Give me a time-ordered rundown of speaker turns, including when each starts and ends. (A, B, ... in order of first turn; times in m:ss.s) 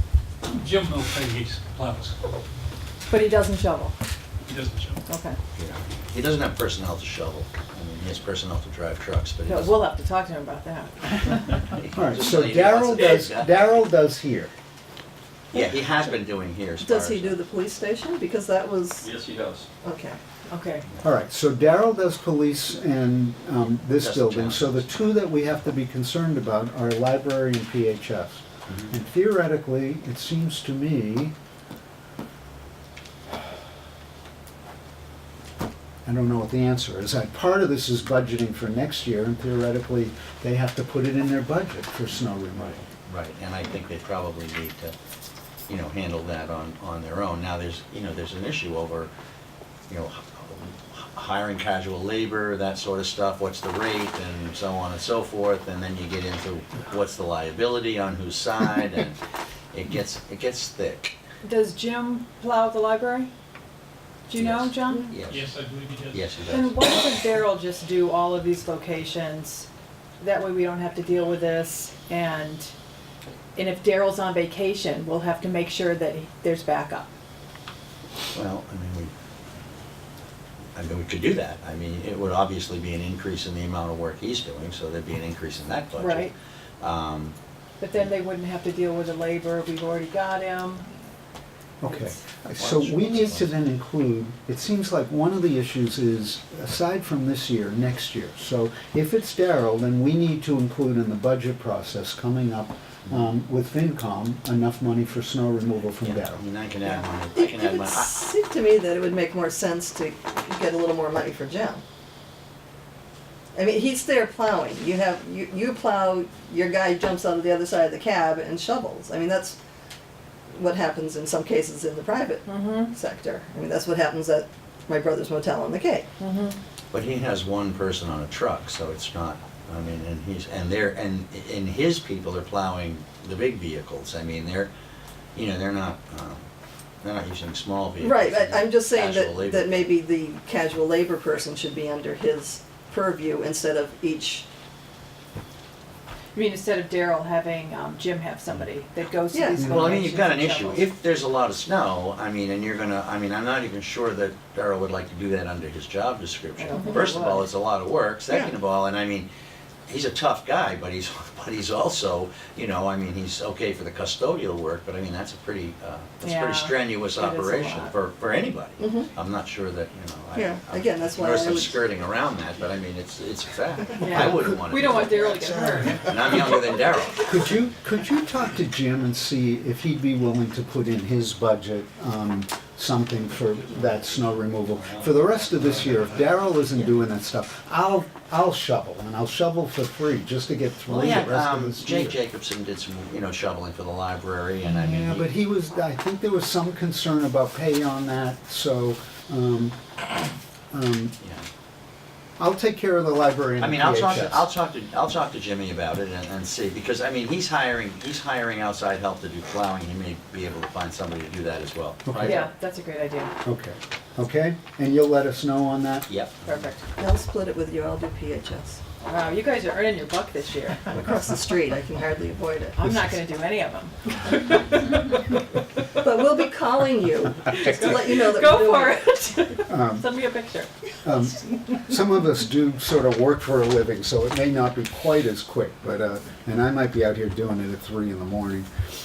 0:00.5-0:02.2 A
0:03.1-0:04.0 B
0:04.5-0:05.0 A
0:05.1-0:05.4 B
0:05.6-0:09.8 C
0:09.5-0:11.6 B
0:11.7-0:13.6 C
0:11.9-0:14.5 D
0:15.5-0:17.4 C
0:15.5-0:16.1 E
0:16.8-0:19.1 E
0:19.0-0:19.7 C
0:19.8-0:20.2 E
0:20.5-0:20.9 B
0:21.0-0:31.3 D
0:24.0-0:24.9 C
0:28.7-0:28.9 C
0:36.0-0:42.8 D
0:42.6-0:44.9 C
0:45.7-0:49.1 C
0:49.9-0:59.2 C
0:59.7-1:01.1 C
1:01.4-1:03.3 B
1:04.3-1:05.1 B
1:04.3-1:05.4 C
1:05.2-1:06.5 A
1:06.1-1:06.8 C
1:06.5-1:09.7 B
1:10.2-1:12.7 B
1:13.6-1:17.1 B
1:18.3-1:19.1 C
1:20.8-1:27.4 C
1:26.0-1:26.3 B
1:27.8-1:30.9 B
1:31.8-1:46.4 D
1:32.6-1:33.5 C
1:46.0-1:48.2 C
1:46.8-1:51.8 E
1:53.6-1:59.6 E
2:00.5-2:06.1 E
2:02.5-2:02.9 B
2:06.2-2:06.6 B
2:06.9-2:14.7 C
2:15.4-2:16.5 C
2:17.0-2:19.9 C
2:18.0-2:24.4 E
2:26.3-2:30.9 B
2:29.3-2:29.9 E
2:29.6-2:39.3 C
2:36.6-2:37.5 B
2:36.7-2:37.1 E
2:39.9-2:55.2 C
2:46.2-2:48.0 B
2:48.8-2:49.1 E
2:50.4-2:51.8 E
2:54.0-2:56.2 B
2:54.2-2:56.6 D
2:56.1-2:57.6 C
2:57.2-3:12.2 D
3:10.9-3:15.3 C
3:14.7-3:19.9 D
3:20.7-3:21.1 D
3:21.2-3:21.5 C
3:22.4-3:24.5 D
3:23.6-3:32.4 C
3:32.0-3:32.5 D
3:32.2-3:33.3 B
3:33.4-3:36.1 D
3:36.1-3:36.5 C
3:36.4-3:36.8 B
3:37.0-3:38.8 E
3:39.0-3:41.0 B
3:40.9-3:42.8 E
3:42.8-3:45.6 B
3:42.8-3:43.2 D
3:46.0-3:49.1 E
3:47.5-3:51.8 B
3:49.7-3:50.1 D
3:51.0-3:58.7 D